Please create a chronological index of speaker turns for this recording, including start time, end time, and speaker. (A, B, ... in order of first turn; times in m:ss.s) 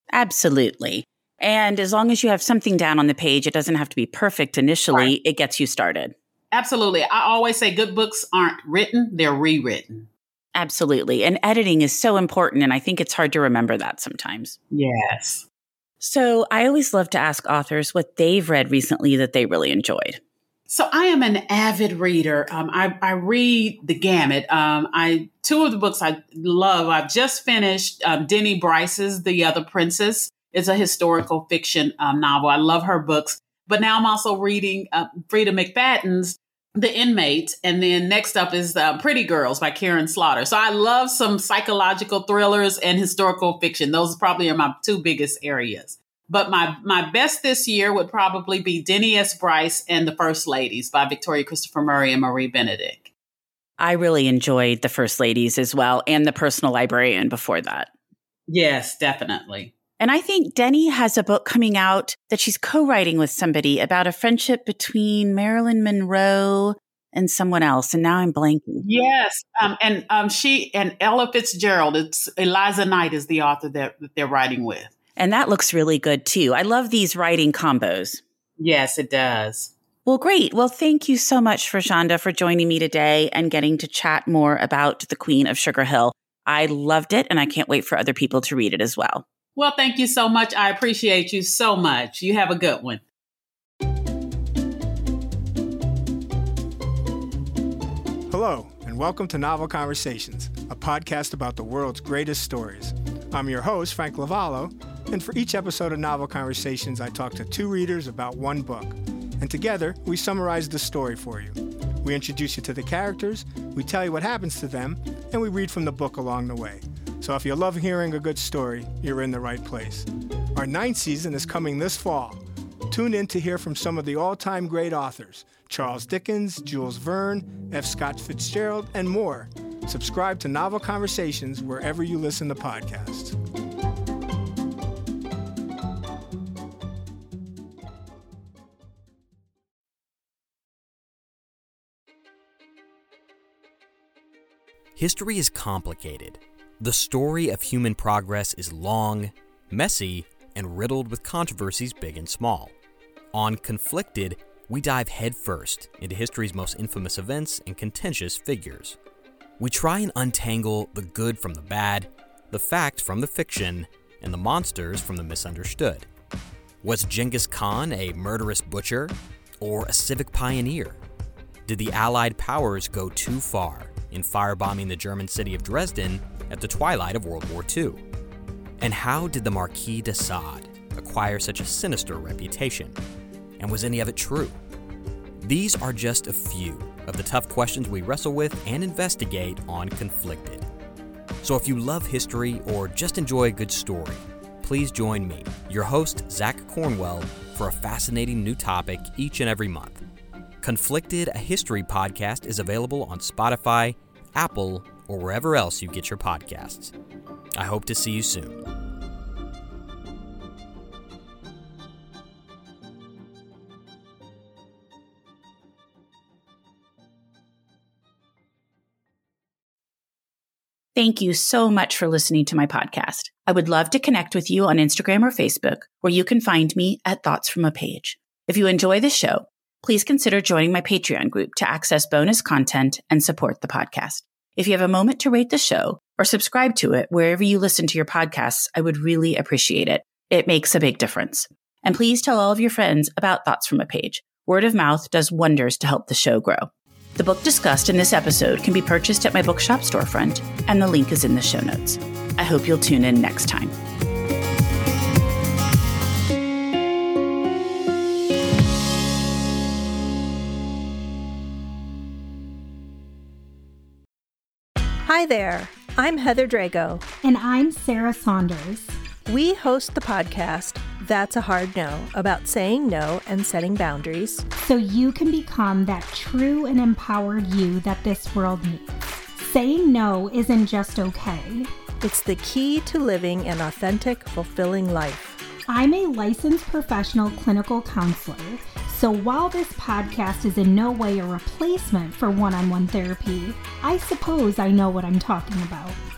0:00.1-0:06.1 A
0:06.5-0:10.1 B
0:10.6-0:14.6 A
0:14.7-0:15.4 B
0:16.0-0:20.2 A
0:20.7-0:53.1 B
0:53.8-0:57.9 A
0:58.5-0:59.7 B
1:00.0-1:08.9 A
1:08.8-1:14.9 B
1:15.2-1:18.2 A
1:18.6-1:19.7 B
1:20.1-1:29.2 A
1:29.6-1:33.0 B
1:38.3-2:13.4 C
2:25.0-2:32.7 D
2:33.3-2:39.0 D
2:39.6-2:46.1 D
2:46.8-2:51.0 D
2:51.7-2:58.0 D
2:58.8-3:03.0 D
3:03.6-3:04.6 D
3:05.4-3:10.6 D
3:11.4-3:20.0 D
3:20.6-3:26.9 D
3:27.6-3:28.6 D
3:41.0-4:13.8 A
4:25.1-4:27.1 E
4:27.2-4:29.0 F
4:29.3-4:34.4 E
4:34.6-4:41.7 F
4:42.0-4:45.4 E
4:45.7-4:56.0 F